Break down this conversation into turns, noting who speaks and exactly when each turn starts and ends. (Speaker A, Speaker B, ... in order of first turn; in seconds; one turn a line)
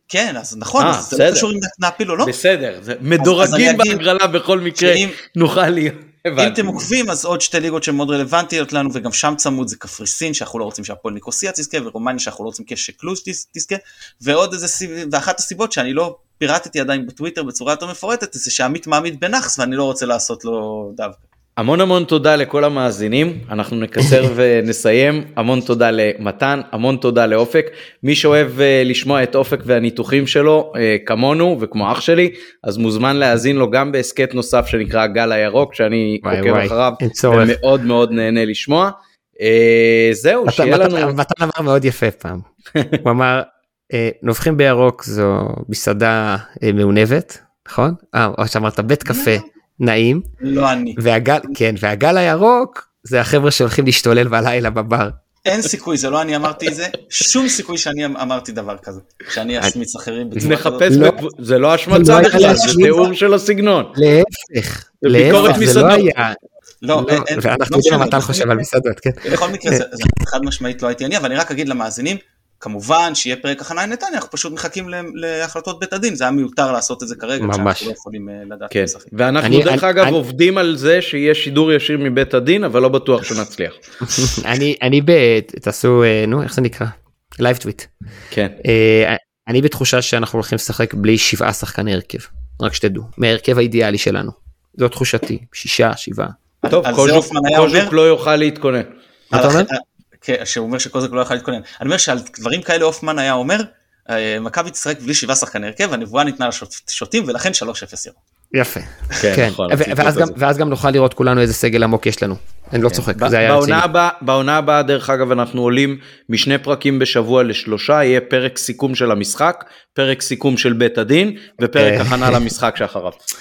Speaker A: 0.1-2.3
Speaker B: 0.8-1.5
Speaker B: 2.2-6.8
Speaker A: 3.2-4.0
Speaker A: 4.8-5.2
Speaker A: 6.4-21.2
Speaker B: 21.6-41.1
Speaker C: 24.0-24.3
Speaker C: 36.2-37.6
Speaker C: 40.5-42.4
Speaker C: 43.0-50.2
Speaker A: 49.0-49.4
Speaker A: 50.4-51.0
Speaker C: 51.0-55.2
Speaker A: 55.5-61.1
Speaker C: 60.4-61.2
Speaker B: 60.4-64.0
Speaker C: 61.9-63.0
Speaker A: 62.0-63.0
Speaker C: 63.9-66.4
Speaker B: 65.0-66.1
Speaker A: 65.3-66.1
Speaker A: 66.8-68.6
Speaker C: 66.9-69.8
Speaker A: 69.2-79.1
Speaker C: 77.4-77.9
Speaker B: 78.7-84.2
Speaker C: 79.4-80.2
Speaker C: 84.0-87.9
Speaker B: 88.3-88.6
Speaker C: 88.6-96.4
Speaker A: 96.6-97.9
Speaker B: 96.6-98.9
Speaker C: 99.3-99.7
Speaker A: 99.3-108.2
Speaker C: 108.5-113.8
Speaker B: 109.2-110.3
Speaker B: 112.9-123.2
Speaker C: 121.8-122.4